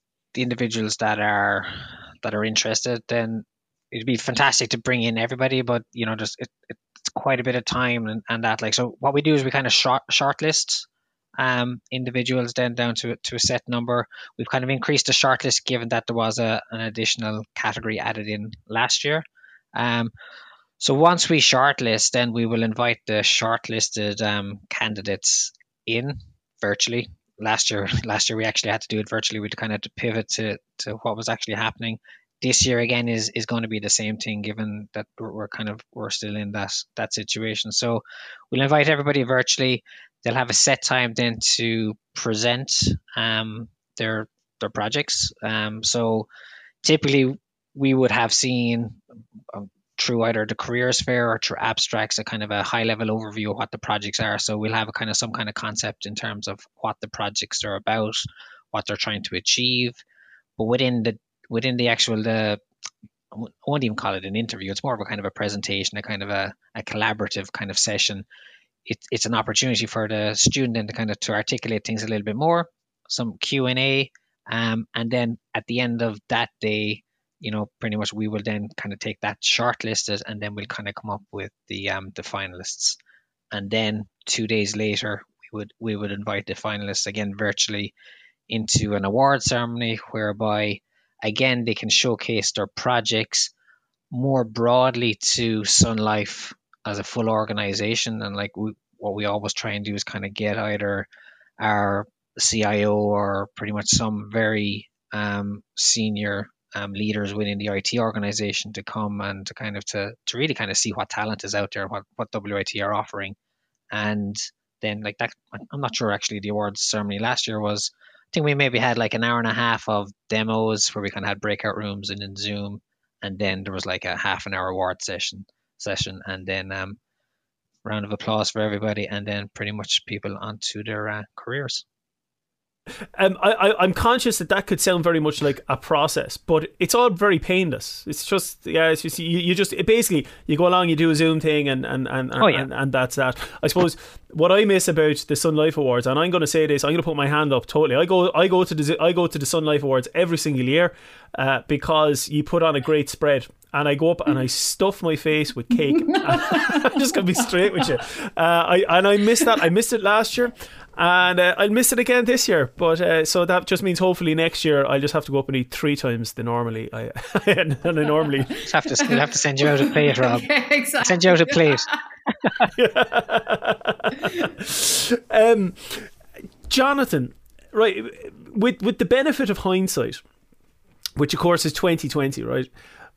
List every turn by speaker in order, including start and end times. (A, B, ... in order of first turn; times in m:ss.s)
0:00.3-0:19.2 A
0:19.8-0:20.1 A
0:20.8-0:46.3 A
0:46.8-0:49.0 A
0:49.5-1:00.0 A
1:00.6-1:02.6 A
1:03.3-1:08.2 A
1:08.9-1:23.0 A
1:23.5-1:27.9 A
1:28.5-1:33.5 A
1:34.1-1:41.1 A
1:41.6-1:53.4 A
1:53.9-2:07.0 A
2:07.8-2:11.8 A
2:13.2-2:48.6 B
2:22.4-2:22.7 A
2:36.3-2:36.6 C
2:48.6-2:50.5 A
2:49.6-2:51.9 C
2:51.0-2:51.9 A
2:52.8-2:56.1 B
2:56.7-3:00.2 B
3:01.2-3:02.7 B